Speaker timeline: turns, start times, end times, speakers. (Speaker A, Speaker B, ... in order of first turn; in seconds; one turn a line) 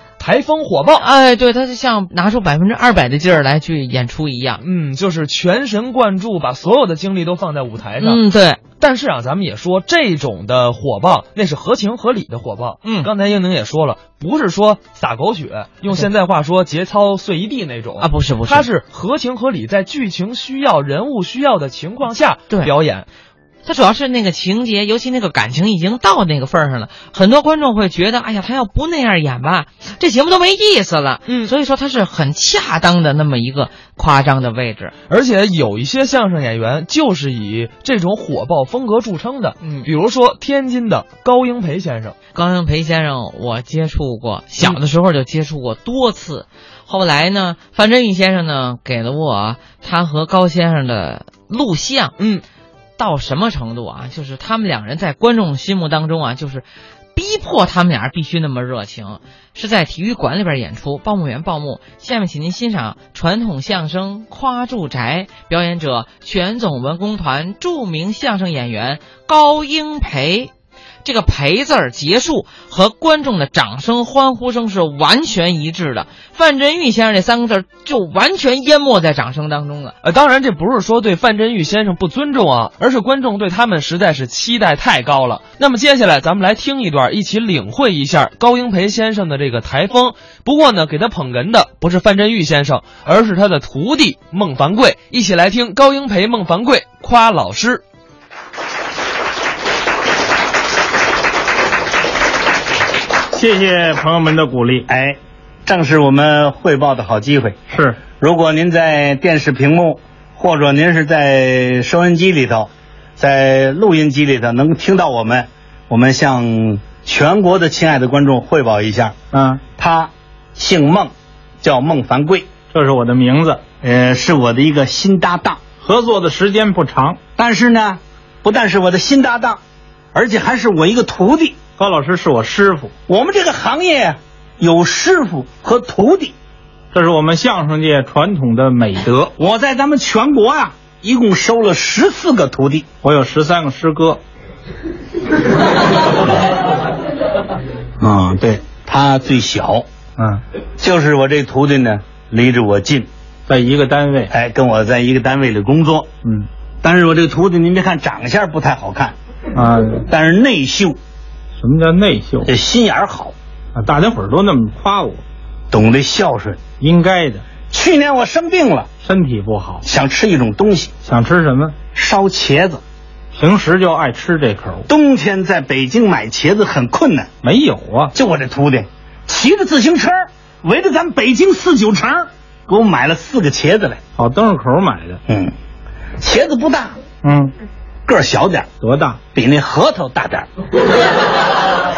Speaker A: 0.2-1.1
Speaker B: 0.9-4.6
Speaker A: 4.6-8.2
Speaker B: 8.0-8.6
Speaker A: 8.8-23.1
Speaker B: 12.8-13.1
Speaker B: 18.0-18.7
Speaker B: 23.6-34.9
Speaker A: 31.3-31.5
Speaker A: 35.1-42.1
Speaker B: 39.6-39.9
Speaker B: 42.3-52.2
Speaker A: 52.2-52.4
Speaker B: 53.0-70.5
Speaker B: 71.0-80.0
Speaker A: 80.0-97.8
Speaker C: 103.3-104.9
Speaker D: 104.9-107.6
Speaker C: 107.7-108.0
Speaker D: 108.1-119.2
Speaker C: 119.3-119.6
Speaker D: 119.8-122.5
Speaker C: 122.7-123.6
Speaker D: 123.8-125.6
Speaker C: 125.8-127.2
Speaker D: 127.4-129.6
Speaker D: 130.1-131.6
Speaker C: 131.8-132.9
Speaker D: 133.1-136.3
Speaker C: 136.9-139.3
Speaker D: 139.4-142.9
Speaker C: 143.0-144.2
Speaker D: 148.0-149.9
Speaker C: 150.2-150.4
Speaker D: 150.8-153.1
Speaker C: 153.5-154.3
Speaker D: 154.3-156.1
Speaker D: 156.8-159.2
Speaker C: 159.6-160.1
Speaker D: 160.1-161.0
Speaker C: 161.6-162.5
Speaker D: 162.4-163.3
Speaker C: 163.7-165.2
Speaker D: 165.7-166.6
Speaker C: 166.8-167.4
Speaker D: 167.7-168.9
Speaker C: 169.0-169.8
Speaker D: 169.8-170.9
Speaker C: 171.1-171.8
Speaker D: 171.9-172.8
Speaker C: 173.3-174.9
Speaker D: 174.9-177.3
Speaker C: 177.4-178.1
Speaker D: 178.1-184.0
Speaker C: 184.2-185.2
Speaker D: 185.3-185.5
Speaker D: 186.2-187.0
Speaker C: 187.2-187.5
Speaker D: 188.1-188.7
Speaker C: 188.8-189.2
Speaker D: 189.3-190.5